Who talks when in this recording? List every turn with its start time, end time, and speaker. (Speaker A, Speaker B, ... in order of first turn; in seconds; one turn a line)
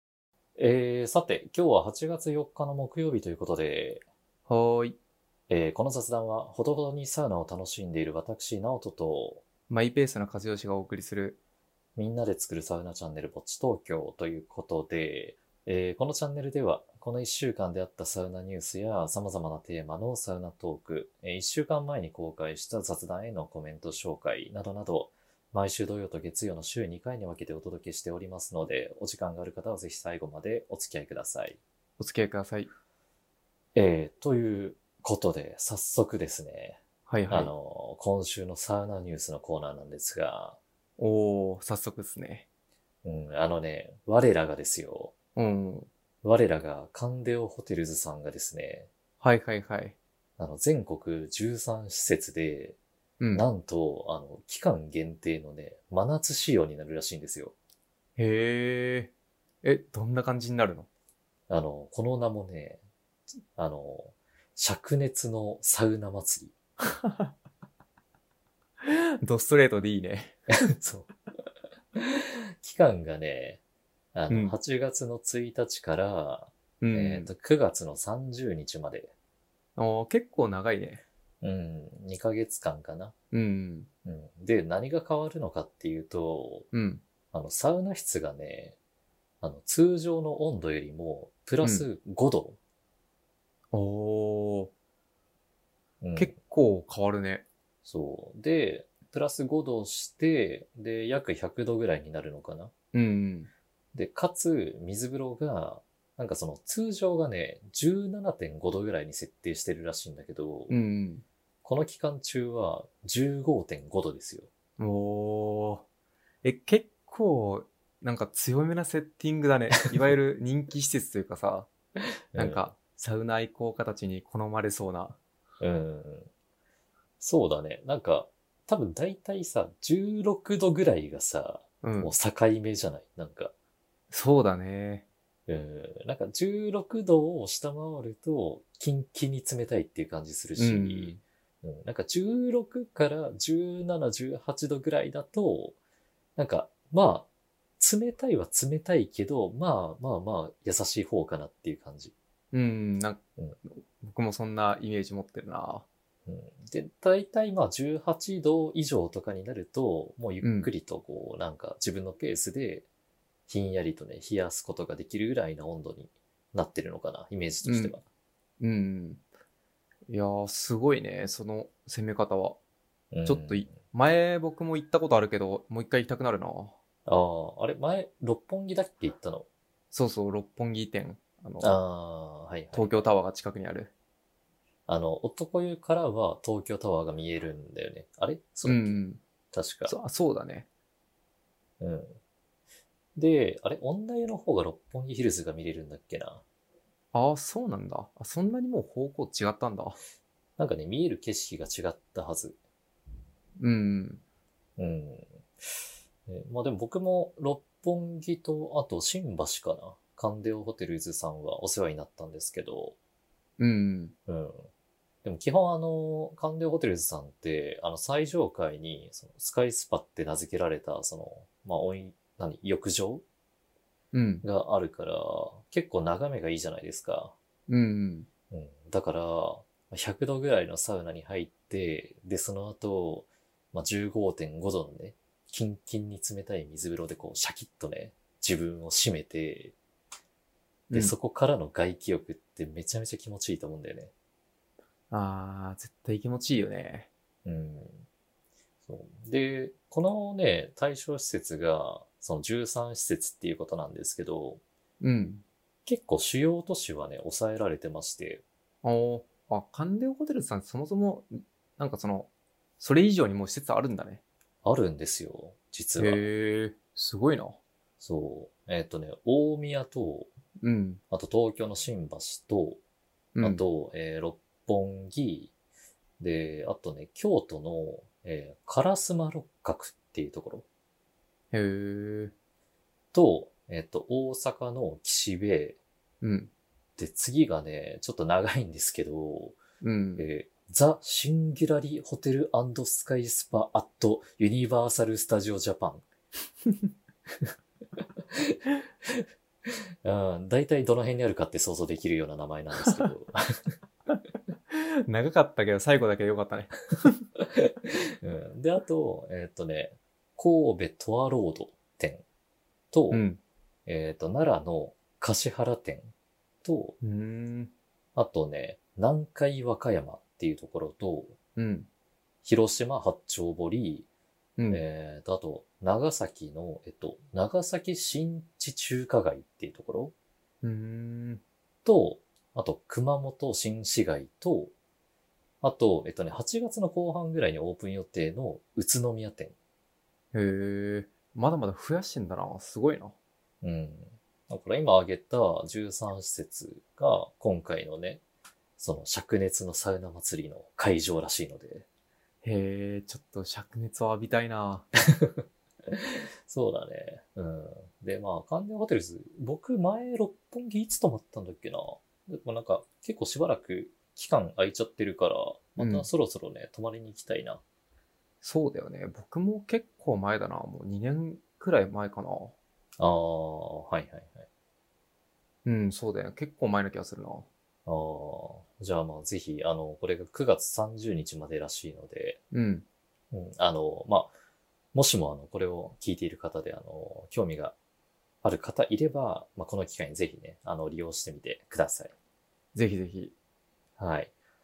Speaker A: 0.6-4.0
Speaker B: 4.5-5.0
Speaker A: 5.5-9.4
Speaker B: 9.7-11.4
Speaker A: 11.9-31.6
Speaker B: 32.0-32.7
Speaker A: 33.7-40.6
Speaker B: 37.1-37.5
Speaker B: 41.0-42.5
Speaker A: 43.0-45.1
Speaker B: 45.4-45.9
Speaker A: 46.2-48.9
Speaker B: 49.2-50.0
Speaker A: 50.4-52.8
Speaker B: 53.2-53.4
Speaker A: 53.3-57.5
Speaker B: 58.2-59.1
Speaker B: 59.6-60.9
Speaker A: 61.5-62.8
Speaker A: 63.5-66.5
Speaker B: 67.0-67.3
Speaker B: 68.8-70.4
Speaker A: 70.6-71.1
Speaker A: 71.9-73.6
Speaker A: 74.1-79.1
Speaker B: 74.3-74.6
Speaker B: 76.8-77.3
Speaker B: 79.8-81.0
Speaker A: 81.4-83.1
Speaker B: 83.3-83.9
Speaker A: 84.0-86.7
Speaker B: 86.7-87.0
Speaker A: 87.3-88.8
Speaker A: 89.4-92.6
Speaker B: 91.6-91.9
Speaker B: 93.7-94.7
Speaker A: 96.0-96.3
Speaker B: 96.2-97.5
Speaker A: 97.8-102.7
Speaker B: 102.9-103.5
Speaker A: 103.9-110.7
Speaker B: 110.7-111.2
Speaker A: 111.6-114.5
Speaker B: 114.8-115.8
Speaker B: 116.4-121.7
Speaker A: 122.3-122.7
Speaker B: 122.3-125.2
Speaker A: 125.6-126.3
Speaker A: 127.2-133.5
Speaker B: 131.8-132.1
Speaker B: 134.1-135.1
Speaker A: 135.5-145.8
Speaker B: 140.6-141.2
Speaker A: 146.3-147.3
Speaker A: 147.8-152.1
Speaker B: 152.5-155.9
Speaker A: 156.2-162.9
Speaker B: 160.4-160.7
Speaker A: 163.5-168.0
Speaker B: 167.6-167.9
Speaker B: 168.6-169.2
Speaker B: 170.1-172.6
Speaker A: 173.1-173.7
Speaker B: 173.2-176.8
Speaker A: 177.1-179.5
Speaker B: 179.9-181.8
Speaker A: 181.6-183.1
Speaker B: 182.7-183.9
Speaker A: 184.9-189.0
Speaker B: 188.6-189.2
Speaker A: 189.5-189.9
Speaker B: 189.8-190.7
Speaker A: 191.8-192.2
Speaker A: 193.2-196.4
Speaker B: 197.1-200.0
Speaker A: 200.6-202.6
Speaker B: 203.6-204.2
Speaker A: 204.8-205.3
Speaker A: 206.3-212.9
Speaker B: 213.6-214.1
Speaker A: 214.3-214.7
Speaker A: 215.2-223.2
Speaker B: 224.1-224.4
Speaker A: 224.4-227.3
Speaker B: 227.7-228.3
Speaker A: 228.5-239.7
Speaker B: 240.9-241.1
Speaker A: 240.9-244.1
Speaker B: 245.1-247.1
Speaker A: 247.4-248.0
Speaker A: 248.8-254.6
Speaker B: 255.0-255.4
Speaker A: 255.8-258.4
Speaker B: 258.8-264.2
Speaker A: 264.6-266.2
Speaker B: 266.0-267.6
Speaker A: 268.0-270.3
Speaker B: 270.6-271.0
Speaker A: 271.1-272.8
Speaker B: 273.3-273.6
Speaker A: 273.4-275.5
Speaker A: 276.2-280.6
Speaker B: 281.5-282.3
Speaker A: 283.1-285.8
Speaker B: 286.2-286.5
Speaker A: 287.0-289.6
Speaker B: 289.8-290.2
Speaker A: 290.2-296.0
Speaker A: 298.3-303.4
Speaker B: 304.7-307.2
Speaker A: 307.5-312.2
Speaker A: 312.9-313.2
Speaker B: 313.1-313.4
Speaker A: 313.9-316.1
Speaker A: 316.6-317.0
Speaker B: 317.0-317.7
Speaker A: 318.1-321.4
Speaker B: 321.6-321.9
Speaker A: 322.4-324.1
Speaker B: 324.6-324.8
Speaker A: 324.7-330.1
Speaker B: 330.6-331.4
Speaker A: 331.8-334.7
Speaker A: 335.6-339.5
Speaker B: 340.3-343.1
Speaker A: 343.6-348.2
Speaker A: 348.8-351.8
Speaker B: 352.4-354.9
Speaker A: 355.1-367.6
Speaker B: 365.8-366.1
Speaker B: 368.4-372.5
Speaker A: 373.0-374.4
Speaker B: 375.6-377.5
Speaker A: 377.9-382.4
Speaker B: 382.5-382.8
Speaker A: 383.3-384.3
Speaker A: 384.9-387.8
Speaker A: 388.4-392.1
Speaker B: 392.7-393.3
Speaker A: 394.0-394.3